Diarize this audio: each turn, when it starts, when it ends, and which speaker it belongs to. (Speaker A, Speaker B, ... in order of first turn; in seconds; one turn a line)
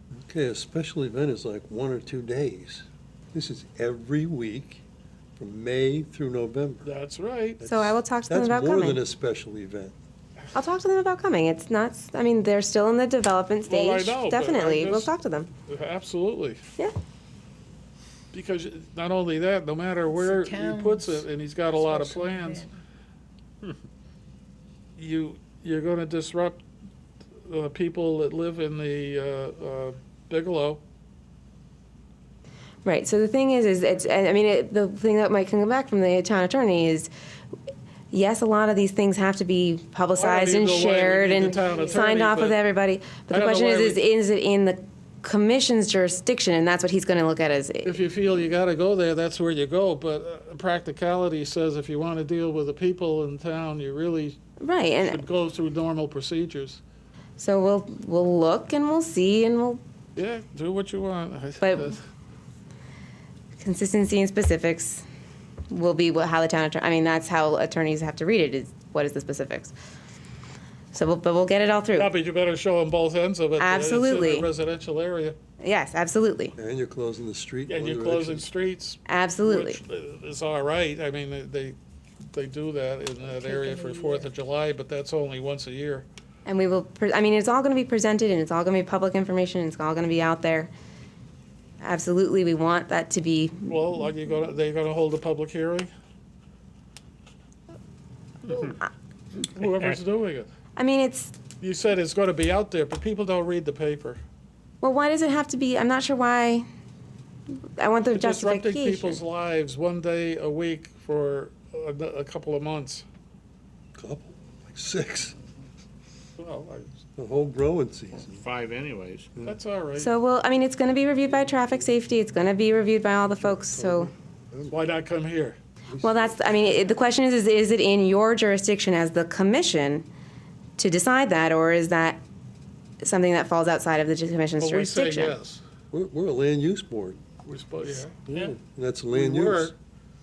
Speaker A: 0.2-4.8
Speaker A: 5.4-6.9
Speaker B: 6.8-7.6
Speaker A: 7.6-9.9
Speaker C: 7.6-9.0
Speaker C: 10.5-15.5
Speaker B: 13.7-15.1
Speaker B: 15.6-16.6
Speaker B: 18.3-22.7
Speaker D: 20.1-21.2
Speaker D: 21.9-22.7
Speaker B: 25.0-26.6
Speaker B: 27.4-30.8
Speaker C: 32.9-37.1
Speaker C: 38.1-48.0
Speaker B: 40.1-42.6
Speaker B: 43.3-44.0
Speaker B: 47.8-54.4
Speaker C: 54.6-55.2
Speaker B: 55.0-56.8
Speaker C: 57.4-59.8
Speaker B: 60.2-62.0
Speaker C: 61.6-61.9
Speaker C: 63.6-65.0
Speaker C: 65.7-69.7
Speaker C: 70.9-72.1
Speaker B: 72.0-75.4
Speaker C: 73.6-74.5
Speaker C: 75.6-76.5
Speaker A: 76.6-78.5
Speaker B: 77.7-81.8
Speaker C: 79.1-79.8
Speaker B: 82.3-86.1
Speaker C: 86.5-90.7
Speaker C: 91.8-93.7
Speaker B: 93.7-95.9
Speaker B: 98.5-98.7
Speaker B: 99.4-100.5
Speaker C: 100.8-101.4
Speaker B: 101.6-104.2
Speaker C: 104.8-106.7
Speaker C: 107.8-109.2
Speaker B: 108.1-113.1
Speaker A: 114.0-115.4
Speaker B: 116.4-117.0
Speaker A: 117.2-118.5
Speaker D: 118.4-119.3
Speaker B: 119.4-120.1
Speaker C: 120.0-124.1
Speaker A: 123.5-124.7
Speaker B: 124.7-125.6
Speaker A: 125.9-126.6
Speaker C: 126.0-130.1
Speaker C: 130.8-132.2
Speaker C: 133.0-135.3
Speaker B: 134.6-135.6
Speaker A: 135.9-137.2
Speaker B: 137.4-138.6
Speaker A: 138.3-139.7
Speaker B: 139.1-139.8